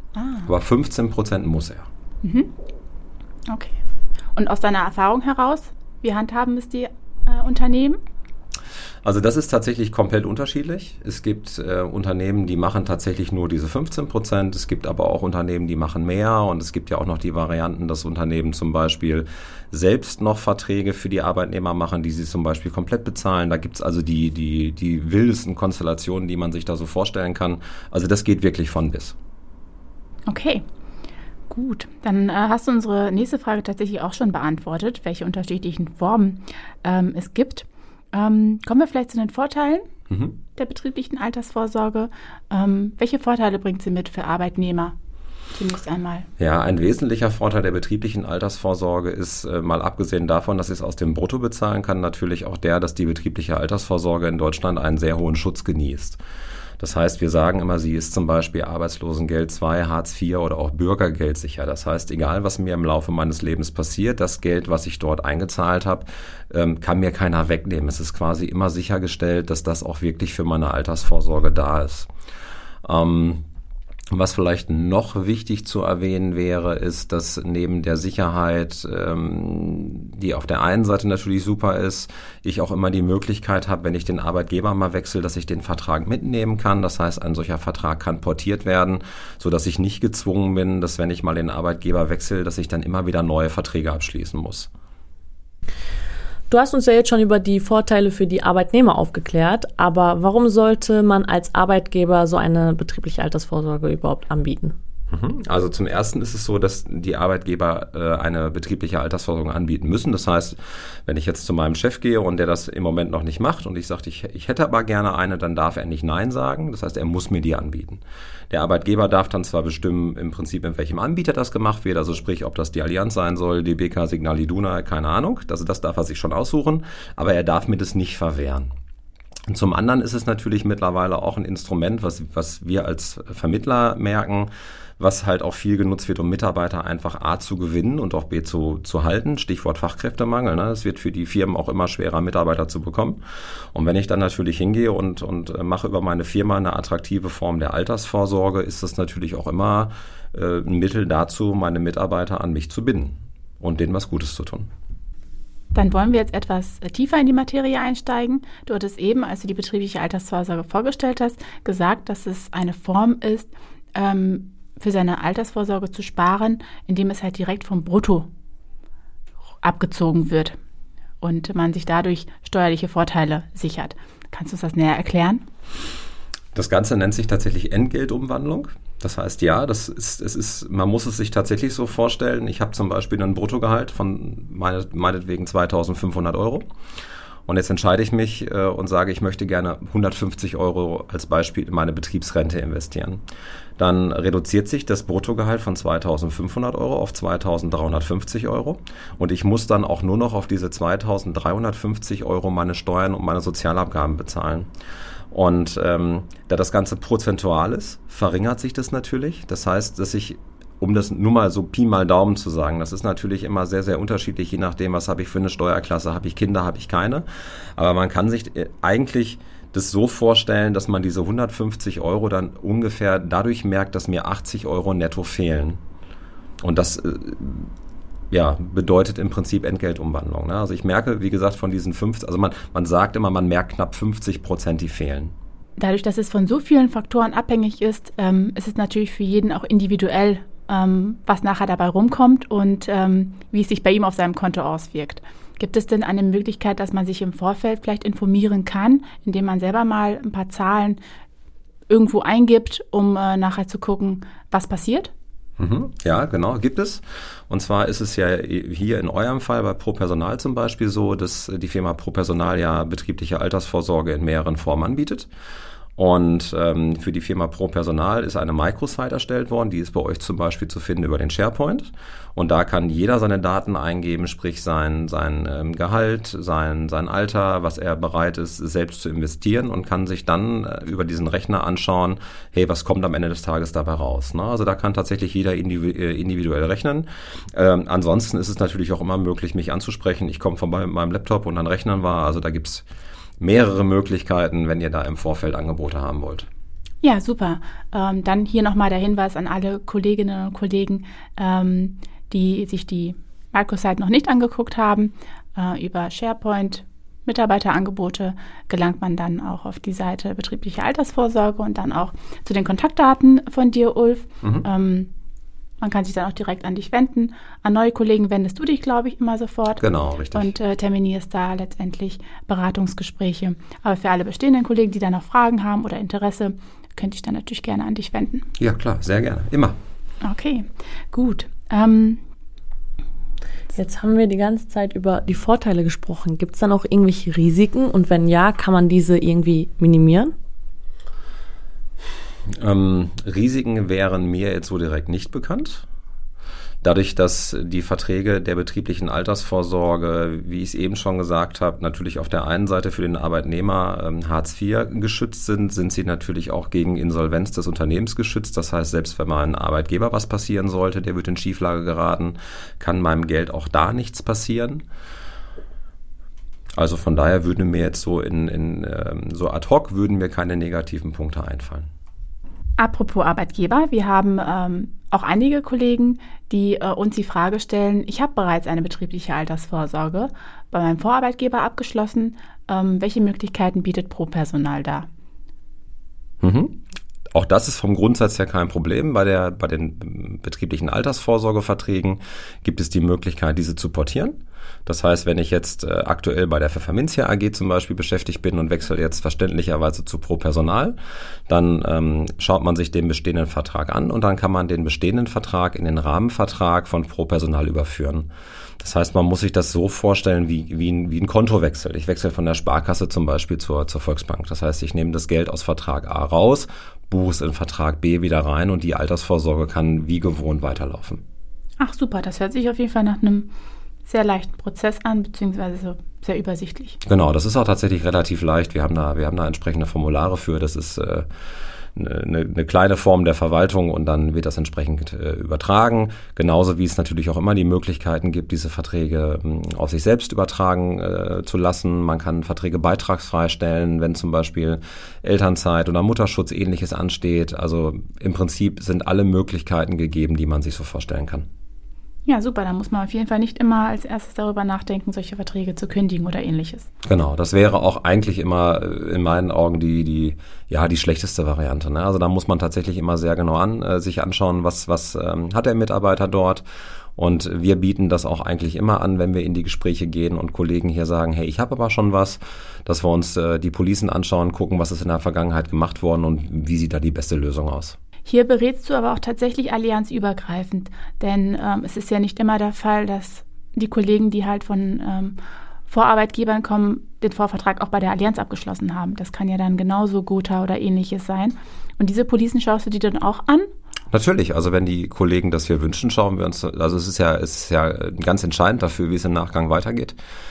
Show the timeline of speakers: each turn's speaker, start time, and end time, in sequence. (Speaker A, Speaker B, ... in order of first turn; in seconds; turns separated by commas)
Speaker A: 0.1-0.5, Speaker B: 0.5-1.9, Speaker A: 2.2-2.5, Speaker A: 3.5-3.8, Speaker A: 4.3-8.0, Speaker B: 9.0-29.2, Speaker A: 30.3-30.6, Speaker A: 31.5-39.9, Speaker B: 40.1-40.4, Speaker A: 40.5-45.0, Speaker A: 45.5-46.3, Speaker B: 46.4-56.2, Speaker B: 56.8-72.1, Speaker B: 72.8-73.4, Speaker B: 74.1-94.7, Speaker C: 96.5-104.7, Speaker B: 105.1-128.7, Speaker B: 129.5-143.2, Speaker B: 143.7-154.7, Speaker A: 155.7-168.3, Speaker A: 169.6-170.6, Speaker A: 171.2-175.4, Speaker B: 176.6-186.6, Speaker B: 187.5-193.2, Speaker B: 193.8-204.7, Speaker B: 205.3-217.3, Speaker B: 217.8-225.8, Speaker B: 226.6-227.7, Speaker B: 228.3-235.3, Speaker A: 235.8-251.0, Speaker A: 251.9-255.1, Speaker B: 255.6-265.3, Speaker B: 266.0-292.9, Speaker B: 293.4-296.5, Speaker A: 297.0-315.1, Speaker A: 315.8-328.5, Speaker B: 319.8-320.5, Speaker B: 328.6-329.8, Speaker A: 330.2-332.2, Speaker C: 333.8-340.3, Speaker B: 342.5-345.9, Speaker B: 346.8-364.8, Speaker B: 366.8-371.9, Speaker A: 372.8-385.1, Speaker B: 386.4-386.8, Speaker B: 387.4-401.0, Speaker B: 401.5-408.3, Speaker B: 408.8-421.2, Speaker A: 421.8-423.5, Speaker A: 424.1-427.0, Speaker B: 427.1-431.3, Speaker B: 432.0-451.5, Speaker A: 452.3-456.9, Speaker B: 457.1-466.6, Speaker B: 467.2-478.0, Speaker A: 478.2-493.7, Speaker B: 494.1-500.2